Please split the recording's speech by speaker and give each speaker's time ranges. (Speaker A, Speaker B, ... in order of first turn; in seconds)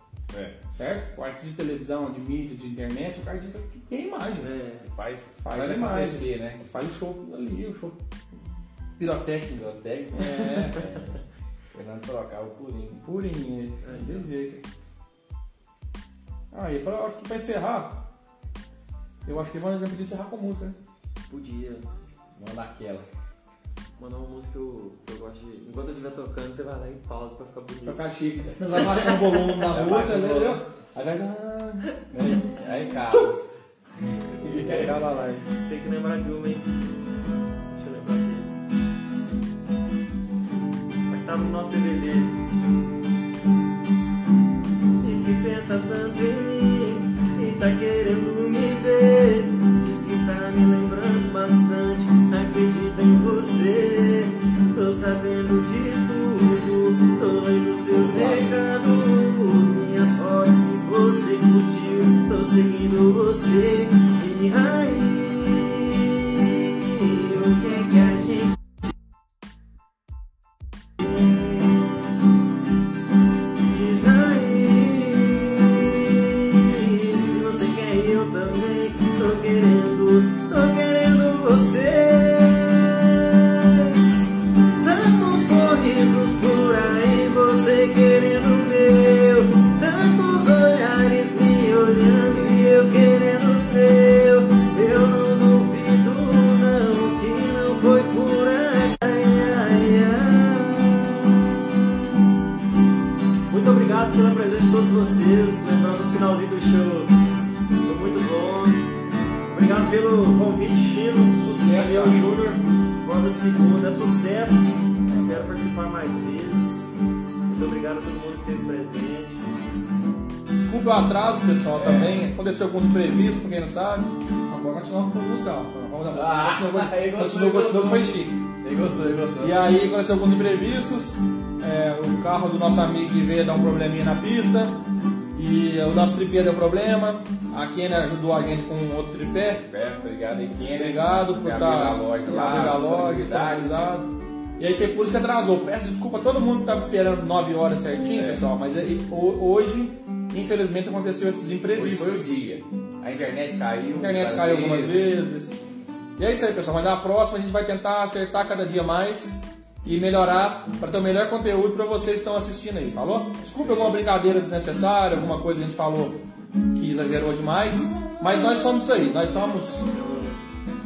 Speaker A: 0.3-0.6, 4.8-6.6, 9.6-11.2, 11.7-13.1, 22.4-23.1, 29.7-30.6, 32.1-33.5, 34.4-35.0, 57.9-58.6, 121.8-122.2, 126.1-129.7, 139.5-143.8, 148.1-148.4, 151.8-155.1, 163.5-164.0
Speaker B: 0.7-4.5, 5.4-8.0, 9.0-10.8, 13.0-14.6, 16.5-18.0, 19.2-20.8, 27.9-32.4, 34.4-35.5, 111.4-112.2, 115.1-115.4, 120.6-128.4, 129.4-134.8, 135.3-139.6, 140.7-152.2, 153.9-155.6, 156.2-166.2, 166.7-169.9
Speaker C: 4.4-4.9, 10.7-11.2, 13.8-14.3, 21.3-21.9, 24.0-28.0, 28.7-29.6, 35.6-37.1, 37.7-38.5, 41.1-42.4, 45.0-68.5, 73.6-84.0, 84.8-101.7, 103.5-107.1, 107.8-108.9, 109.5-116.9, 117.5-119.5, 169.9-170.4